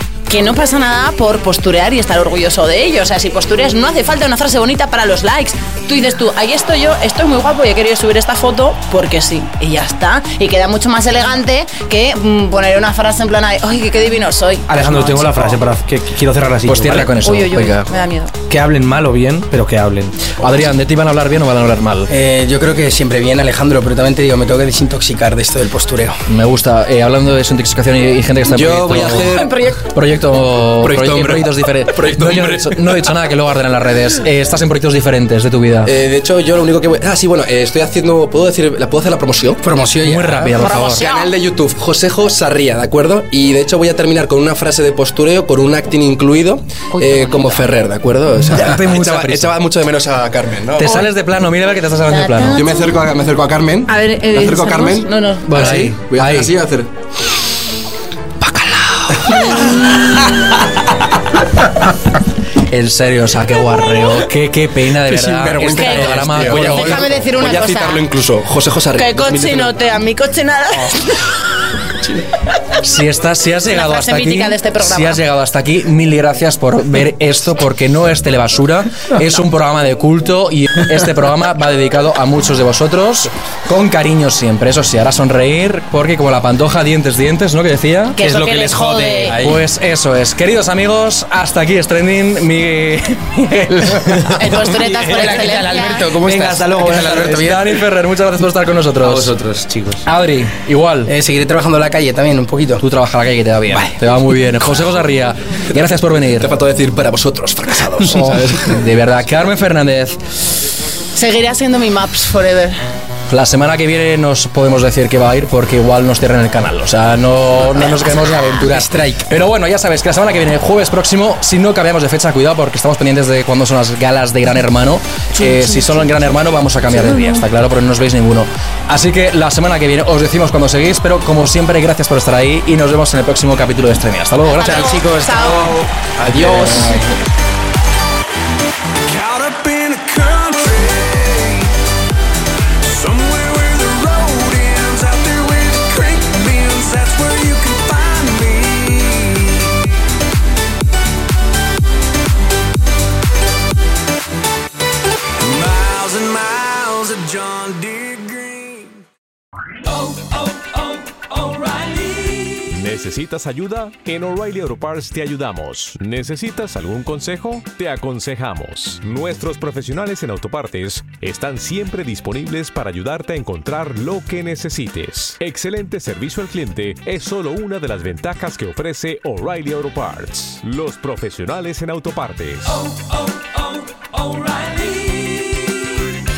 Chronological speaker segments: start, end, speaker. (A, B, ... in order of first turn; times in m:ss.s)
0:00.3-0:15.5 A
0:14.7-0:17.1 B
0:16.6-0:17.9 C
0:17.1-0:18.3 A
0:18.5-0:20.2 B
0:20.4-0:22.1 C
0:22.1-0:26.2 D
0:26.3-0:35.9 C
0:28.5-0:29.7 E
0:29.3-0:29.8 A
0:30.8-0:32.8 E
0:35.8-0:39.6 E
0:39.6-0:40.9 D
0:40.0-0:41.1 C
0:40.6-0:41.3 A
0:40.9-0:51.1 E
0:46.9-0:47.6 A
0:48.5-0:49.5 C
0:50.8-0:52.6 C
0:52.1-0:53.0 A
0:52.5-0:56.9 E
0:53.9-0:55.7 A
0:55.5-0:56.5 C
0:58.4-0:59.6 C
1:02.7-1:07.1 C
1:05.4-1:06.7 D
1:05.5-1:09.8 E
1:05.7-1:08.0 A
1:09.0-1:11.3 A
1:12.8-1:28.2 C
1:13.7-1:15.2 A
1:28.2-1:29.4 A
1:28.2-1:29.6 B
1:29.3-1:34.4 C
1:34.3-1:37.3 B
1:34.3-1:36.1 A
1:35.0-1:37.8 D
1:37.1-1:39.3 C
1:39.0-1:40.0 B
1:40.1-1:41.1 C
1:41.1-1:42.8 D
1:42.8-1:46.5 C
1:45.8-1:48.8 E
1:48.6-1:50.2 C
1:51.2-1:52.8 A
1:53.3-2:15.0 C
1:58.6-1:59.3 D
2:05.4-2:05.8 A
2:14.4-2:15.8 A
2:14.6-2:17.2 D
2:16.3-2:17.1 C
2:19.0-2:21.7 F
2:22.8-2:29.7 F
2:35.4-2:39.0 F
2:39.9-2:42.7 F
2:42.7-3:02.8 G
3:02.7-3:05.8 F